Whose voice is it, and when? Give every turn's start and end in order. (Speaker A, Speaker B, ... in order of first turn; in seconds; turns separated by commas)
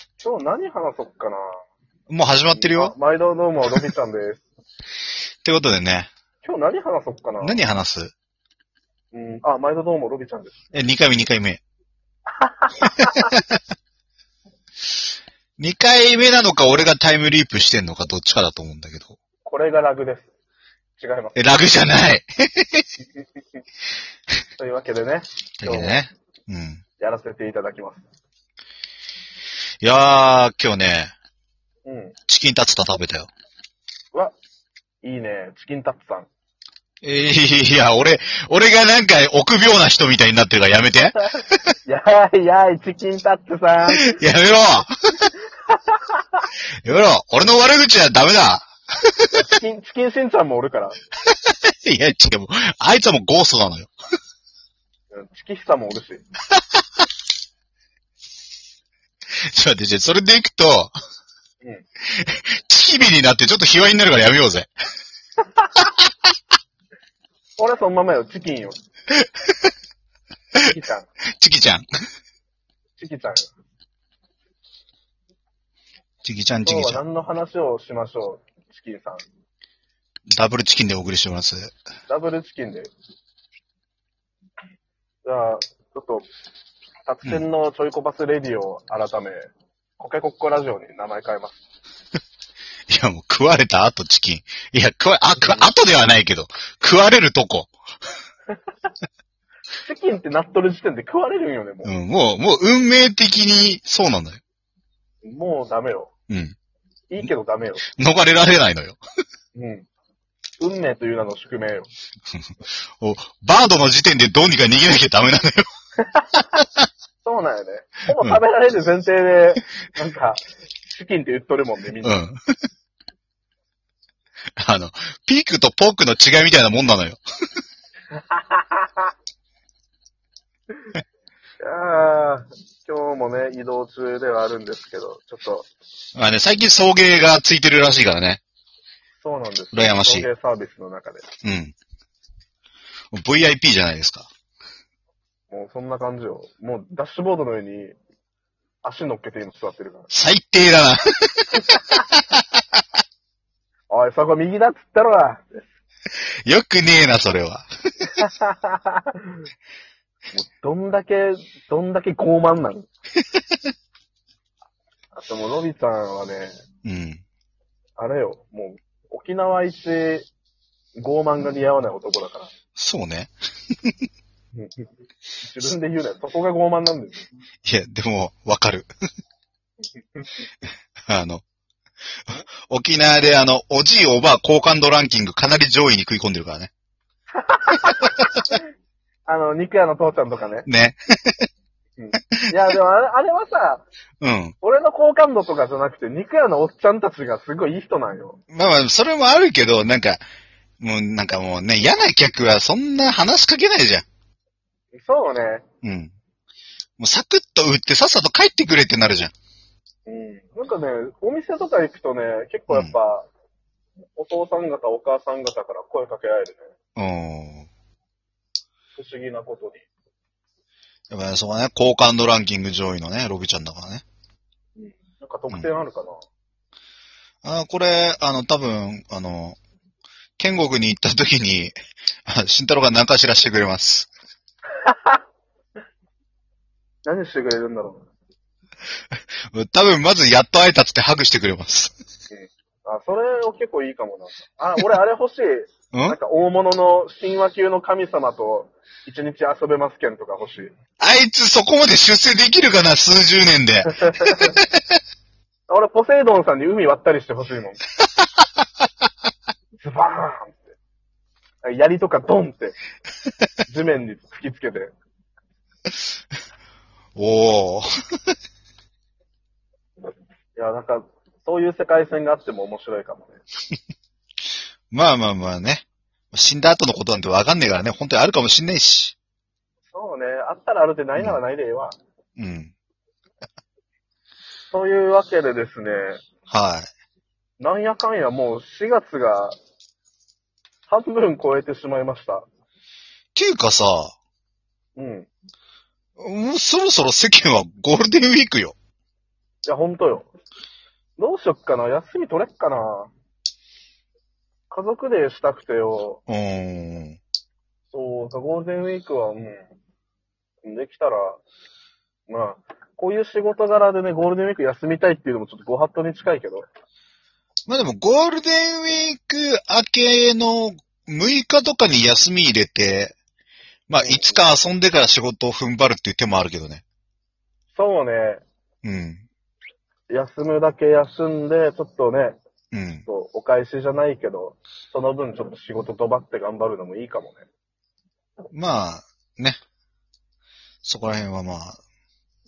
Speaker A: 0.2-1.6, Speaker B: 2.1-2.9, Speaker A: 2.5-4.5, Speaker B: 5.4-6.1, Speaker A: 6.4-7.6, Speaker B: 7.4-8.1, Speaker A: 9.1-10.6, Speaker B: 10.7-11.6, Speaker A: 12.4-13.3, Speaker B: 13.2-13.6, Speaker B: 15.6-19.2, Speaker A: 19.4-20.3, Speaker A: 21.0-21.4, Speaker B: 21.4-22.9, Speaker A: 24.6-26.0, Speaker B: 25.6-26.8, Speaker A: 27.0-28.0, Speaker B: 29.8-31.1, Speaker A: 31.9-32.1, Speaker B: 32.3-33.3, Speaker A: 35.0-36.3, Speaker B: 37.0-41.6, Speaker A: 41.9-44.2, Speaker B: 43.9-45.3, Speaker A: 45.7-46.5, Speaker B: 46.8-49.3, Speaker A: 49.3-51.0, Speaker B: 51.5-53.9, Speaker A: 55.1-56.2, Speaker B: 59.5-60.9, Speaker B: 62.1-64.7, Speaker A: 67.6-68.8, Speaker B: 69.1-69.7, Speaker A: 70.6-71.1, Speaker B: 71.4-71.8, Speaker A: 73.0-73.5, Speaker B: 76.2-77.0, Speaker A: 76.7-79.3, Speaker B: 80.4-81.7, Speaker A: 82.1-82.9, Speaker A: 85.2-86.3, Speaker A: 87.1-89.5, Speaker A: 90.0-91.6, Speaker B: 92.9-97.7, Speaker A: 95.4-95.7, Speaker A: 99.8-101.9, Speaker B: 101.8-104.4, Speaker A: 105.2-106.1, Speaker B: 106.3-106.5, Speaker A: 107.1-107.8, Speaker B: 107.9-109.0, Speaker A: 109.5-109.9, Speaker A: 110.6-111.9, Speaker B: 113.0-115.7, Speaker A: 117.2-122.2, Speaker B: 122.0-122.4, Speaker B: 124.6-127.2, Speaker A: 128.1-129.1, Speaker A: 131.6-135.7, Speaker B: 136.2-138.4, Speaker A: 139.2-141.3, Speaker B: 139.7-140.3, Speaker B: 141.4-141.7, Speaker B: 143.1-144.3, Speaker A: 145.5-148.0, Speaker A: 148.8-150.1, Speaker B: 150.1-151.8, Speaker A: 153.9-155.7, Speaker B: 156.5-158.1, Speaker A: 158.1-159.4, Speaker A: 160.3-162.9, Speaker A: 165.2-166.6, Speaker B: 166.8-167.2, Speaker A: 168.0-170.3, Speaker A: 171.0-172.5, Speaker B: 172.8-173.3, Speaker A: 174.6-174.9, Speaker A: 175.4-177.2, Speaker B: 177.7-178.9, Speaker B: 181.1-181.4, Speaker B: 182.3-186.7, Speaker A: 187.3-188.6, Speaker A: 189.3-190.7, Speaker B: 190.7-191.5, Speaker A: 192.0-193.9, Speaker B: 194.2-194.5, Speaker A: 194.6-198.4, Speaker B: 198.5-200.2, Speaker B: 200.8-204.1, Speaker A: 204.9-205.7, Speaker B: 205.8-206.1, Speaker B: 207.0-209.3, Speaker A: 210.1-213.3, Speaker A: 214.2-216.7, Speaker B: 217.0-217.7, Speaker A: 219.0-219.8, Speaker B: 221.1-224.1, Speaker A: 224.8-226.2, Speaker B: 227.4-229.6, Speaker B: 230.4-231.7, Speaker B: 232.3-234.1, Speaker A: 234.8-235.2, Speaker A: 237.1-238.1, Speaker B: 239.5-241.9, Speaker A: 242.3-250.7, Speaker B: 245.9-246.2, Speaker B: 251.0-254.7, Speaker A: 254.0-254.5, Speaker A: 255.7-257.8, Speaker A: 259.8-260.7, Speaker A: 261.6-262.8, Speaker A: 263.7-264.9, Speaker B: 267.1-267.9, Speaker A: 270.6-273.4, Speaker B: 274.9-279.1, Speaker A: 279.9-282.0, Speaker B: 282.4-282.7, Speaker A: 284.7-286.2, Speaker B: 286.5-286.9, Speaker A: 287.6-289.6, Speaker A: 290.9-292.5, Speaker B: 293.4-294.1, Speaker A: 295.0-295.3, Speaker B: 296.2-298.8, Speaker A: 299.6-300.3, Speaker A: 301.2-303.1, Speaker A: 304.7-306.2, Speaker B: 306.3-307.2, Speaker A: 307.9-309.7, Speaker A: 310.6-311.4, Speaker A: 312.3-316.7, Speaker B: 317.7-323.1, Speaker B: 323.9-326.8, Speaker A: 324.0-324.4, Speaker A: 327.8-328.4, Speaker B: 328.8-329.2, Speaker A: 330.1-332.4, Speaker B: 332.7-333.1, Speaker A: 333.1-337.4, Speaker B: 338.5-339.6, Speaker B: 340.8-341.8